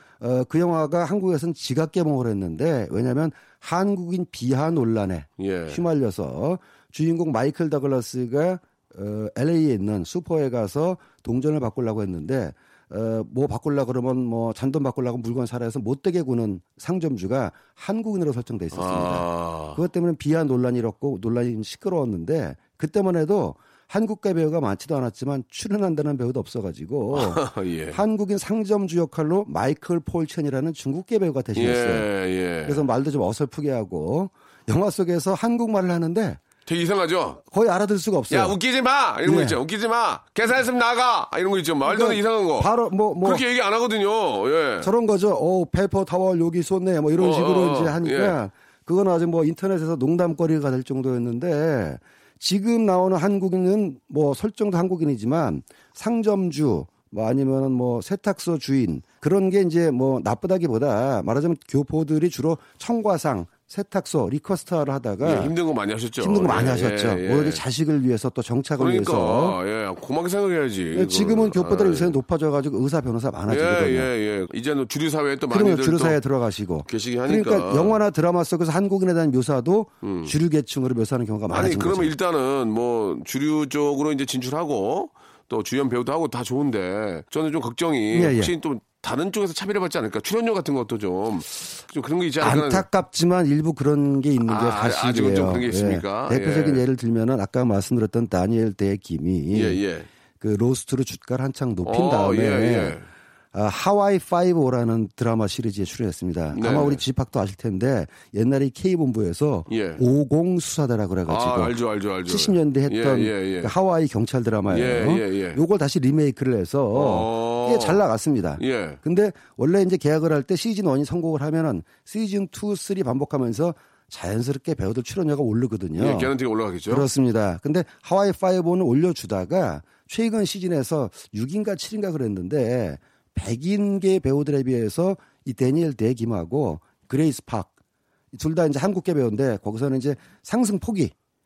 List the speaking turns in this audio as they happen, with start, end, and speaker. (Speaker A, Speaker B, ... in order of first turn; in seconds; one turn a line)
Speaker A: 0.2-32.1
Speaker B: 5.4-5.8
Speaker B: 18.7-19.8
Speaker B: 27.1-28.0
Speaker B: 31.5-32.8
Speaker A: 32.6-36.4
Speaker B: 36.6-37.4
Speaker A: 37.5-38.6
Speaker B: 38.3-44.9
Speaker A: 39.2-39.6
Speaker A: 41.8-43.4
Speaker A: 44.8-65.5
Speaker B: 47.1-48.4
Speaker B: 65.2-67.6
Speaker A: 66.2-69.6
Speaker B: 68.8-72.2
Speaker A: 70.9-74.1
Speaker B: 73.5-76.2
Speaker A: 75.5-82.1
Speaker B: 76.8-78.0
Speaker B: 80.0-80.3
Speaker B: 81.5-92.8
Speaker A: 88.1-88.5
Speaker A: 92.4-99.8
Speaker B: 94.4-96.8
Speaker B: 99.5-100.1
Speaker A: 100.4-103.0
Speaker B: 101.8-103.1
Speaker A: 103.5-111.7
Speaker B: 106.5-107.0
Speaker B: 109.7-110.0
Speaker B: 111.3-113.7
Speaker A: 112.2-126.3
Speaker B: 114.7-115.6
Speaker B: 116.9-118.0
Speaker B: 118.6-119.0
Speaker B: 126.0-127.1
Speaker A: 126.9-137.7
Speaker A: 138.3-141.1